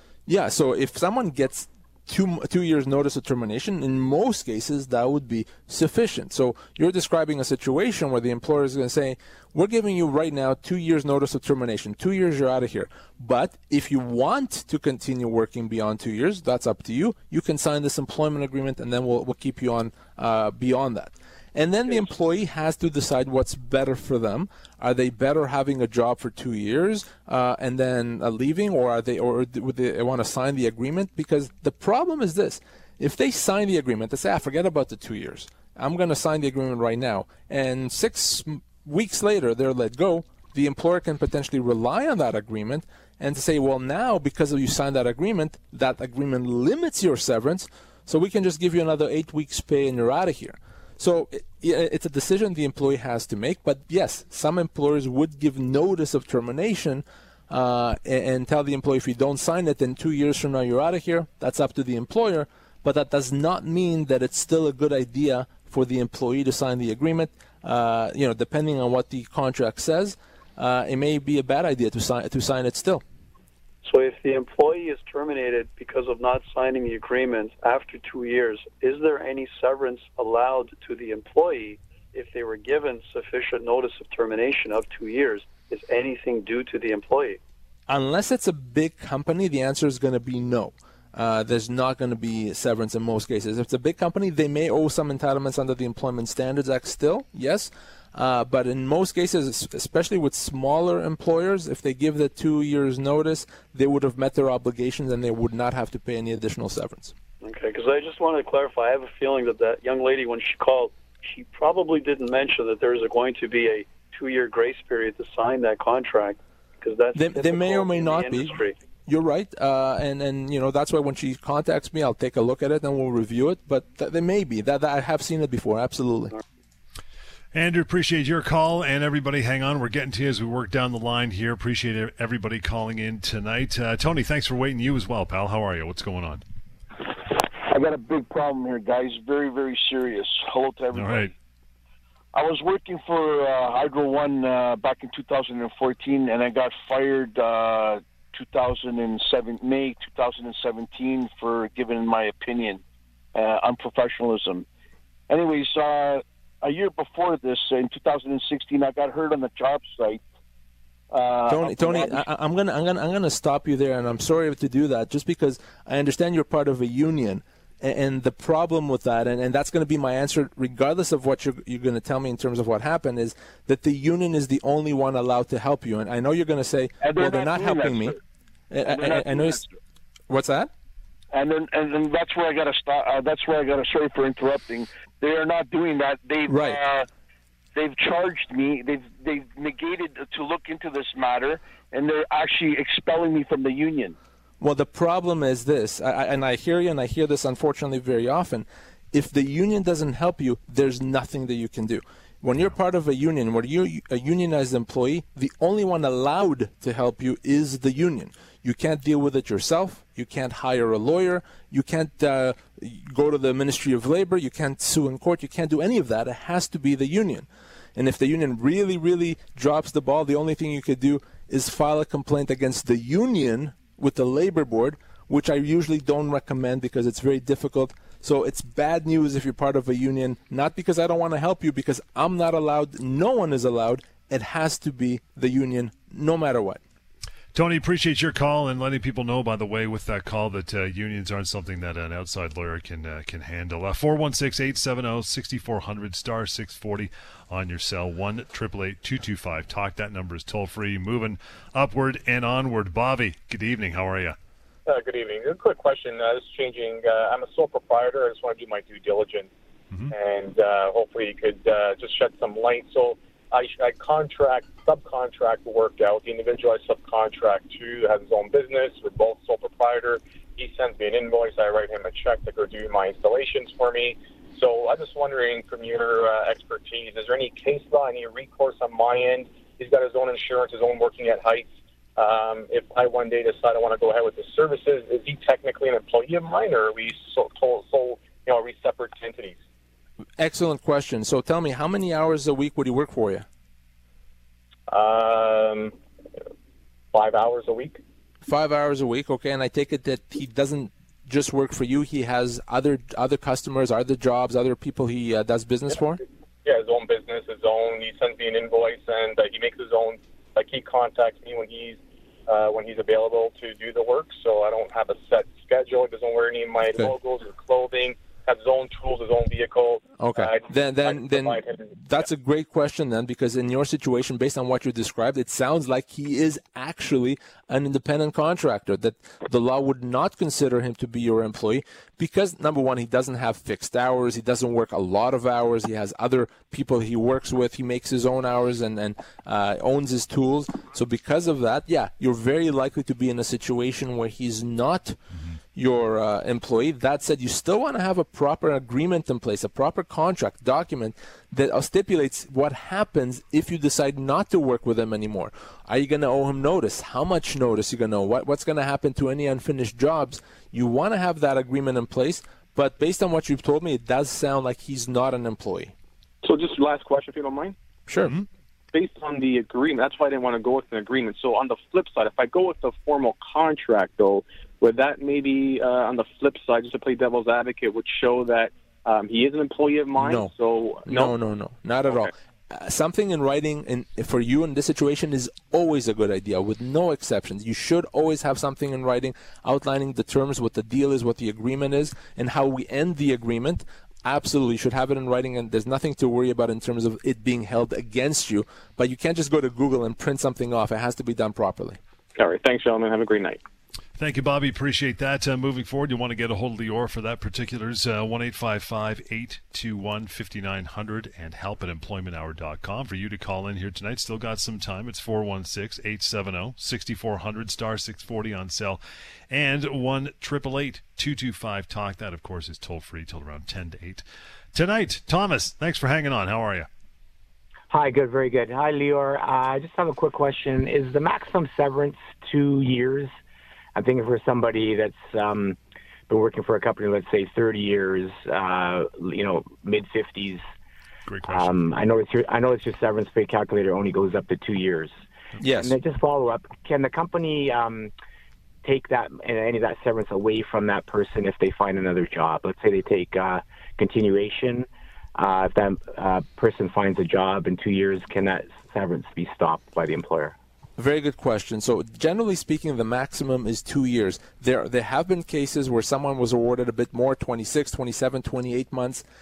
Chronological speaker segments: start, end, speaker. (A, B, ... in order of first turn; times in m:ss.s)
0:00.2-1:13.0 A
1:13.8-1:27.4 B
1:27.9-1:47.1 A
1:47.4-1:58.7 B
1:57.1-2:06.3 A
2:07.5-2:16.4 C
2:17.2-2:21.3 D
2:20.9-2:21.3 C
2:22.3-2:32.8 D
2:33.3-2:34.6 D
2:35.3-2:40.2 D
2:41.1-2:42.2 D
2:41.5-2:58.2 A
2:57.0-2:58.1 D
2:58.7-2:59.6 A
2:58.8-2:59.7 D
3:00.3-3:00.7 A
3:01.3-3:07.1 D
3:06.5-3:06.8 A
3:07.7-3:14.2 D
3:14.6-3:56.8 A
3:57.5-4:14.4 C
4:14.8-4:19.5 E
4:20.1-4:49.6 E
4:50.4-4:53.4 A
4:54.9-4:55.9 E
4:57.1-4:58.0 E
4:58.4-5:06.2 A
5:06.6-5:22.2 E
5:20.2-5:45.2 A
5:45.7-6:05.9 A
6:06.4-6:07.8 F
6:08.1-6:08.4 A
6:08.9-6:21.3 F
6:20.2-6:20.5 A
6:21.0-6:42.0 A
6:42.4-6:43.6 F
6:44.2-7:06.9 C
7:07.9-7:13.3 G
7:14.0-7:15.8 G
7:16.3-7:20.6 G
7:21.3-7:21.7 C
7:21.4-7:25.1 G
7:25.6-7:26.0 A
7:25.8-7:28.1 G
7:28.8-7:40.5 G
7:41.0-7:49.2 A